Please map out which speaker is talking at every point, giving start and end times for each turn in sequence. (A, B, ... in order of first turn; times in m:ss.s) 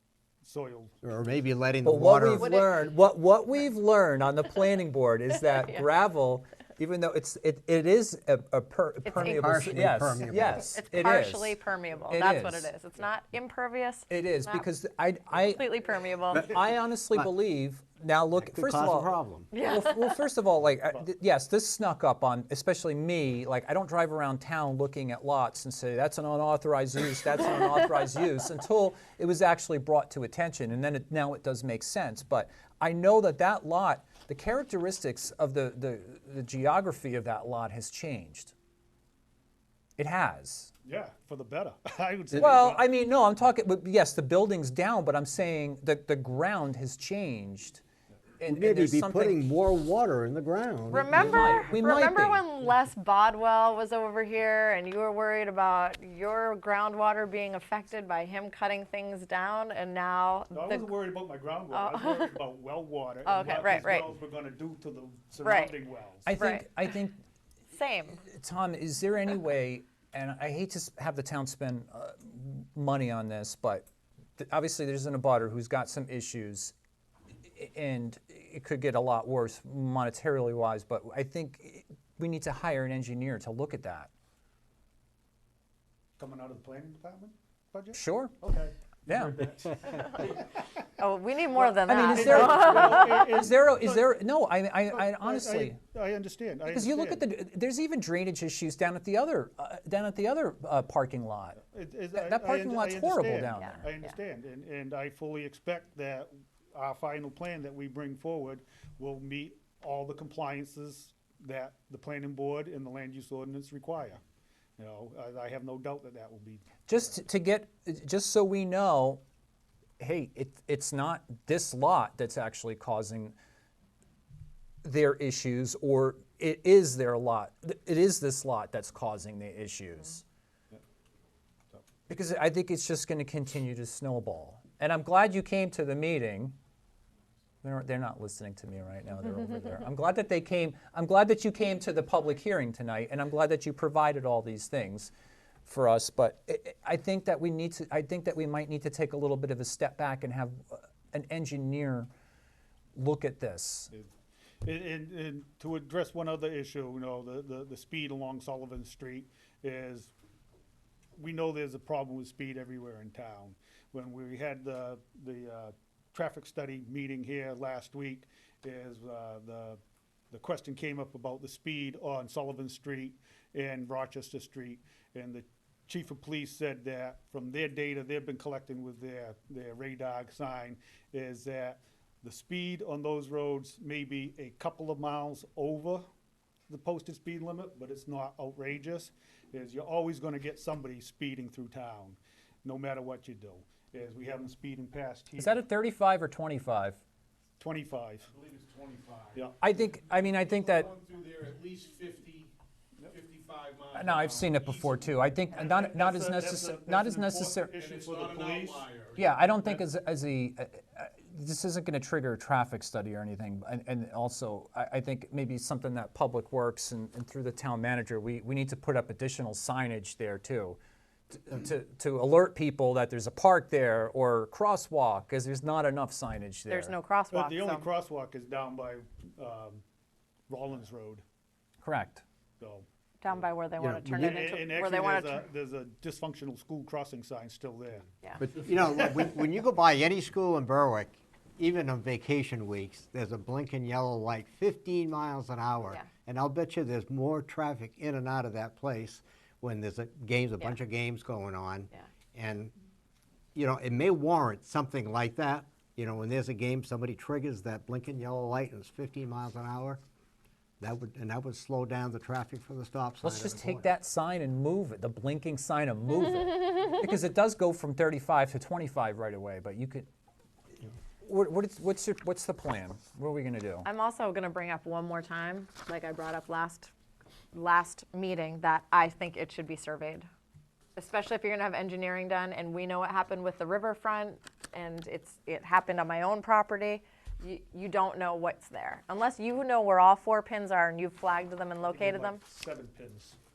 0:00.4-0:00.9 A
0:01.0-0:02.5 B
0:01.8-0:12.7 C
0:02.4-0:02.9 D
0:05.3-0:05.9 D
0:09.0-0:09.6 D
0:09.2-0:10.8 B
0:10.7-0:14.7 D
0:14.1-0:15.7 C
0:15.3-0:16.5 D
0:16.3-0:38.5 C
0:18.4-0:19.5 B
0:19.5-0:20.2 D
0:40.0-0:40.7 C
0:40.8-0:42.8 A
0:42.3-0:47.8 C
0:48.4-0:49.4 C
0:48.5-0:51.4 B
0:50.9-1:00.9 D
0:51.1-0:52.4 C
1:00.5-1:06.3 A
1:01.7-1:02.4 D
1:03.2-1:04.1 D
1:05.4-1:05.8 D
1:06.2-1:07.2 C
1:06.4-1:06.8 D
1:07.7-1:08.2 D
1:08.2-1:13.9 C
1:14.4-1:16.7 C
1:17.5-1:24.1 C
1:26.2-1:30.5 A
1:27.9-1:28.4 C
1:29.1-1:29.4 C
1:31.0-1:33.3 D
1:31.5-1:34.0 A
1:31.8-1:35.8 C
1:34.9-1:37.2 A
1:36.6-1:41.6 C
1:41.6-1:54.2 A
1:42.1-1:43.9 C
1:43.6-1:44.1 D
1:54.8-1:57.2 A
1:56.9-1:59.2 C
2:00.0-2:03.4 C
2:04.8-2:10.2 C
2:12.1-2:16.6 C
2:17.6-2:25.1 C
2:25.6-2:32.1 C
2:32.9-2:33.9 C
2:34.6-2:40.1 A
2:41.2-2:49.8 A
2:50.3-3:06.0 A
3:06.7-3:15.6 A
3:15.4-3:17.0 C
3:17.6-3:18.3 A
3:18.3-3:19.5 E
3:19.6-3:20.9 C
3:20.1-3:22.5 E
3:23.0-3:25.1 E
3:23.9-3:27.8 C
3:25.5-3:28.9 A
3:27.8-3:29.3 E
3:29.2-3:40.8 C
3:41.3-3:46.9 C
3:46.7-3:47.9 D
3:47.3-3:49.8 A
3:50.5-3:51.2 A
3:51.8-3:52.2 C
3:52.6-3:52.8 A
3:53.2-3:55.4 D
3:53.8-3:54.5 B
3:54.1-3:58.1 A
3:58.4-4:12.7 B
4:13.5-4:20.0 B
4:20.8-4:23.9 B
4:23.2-4:30.0 C
4:31.2-4:33.9 C
4:33.8-4:36.9 D
4:37.5-4:40.3 D
4:41.0-4:52.4 D
4:51.8-4:53.4 A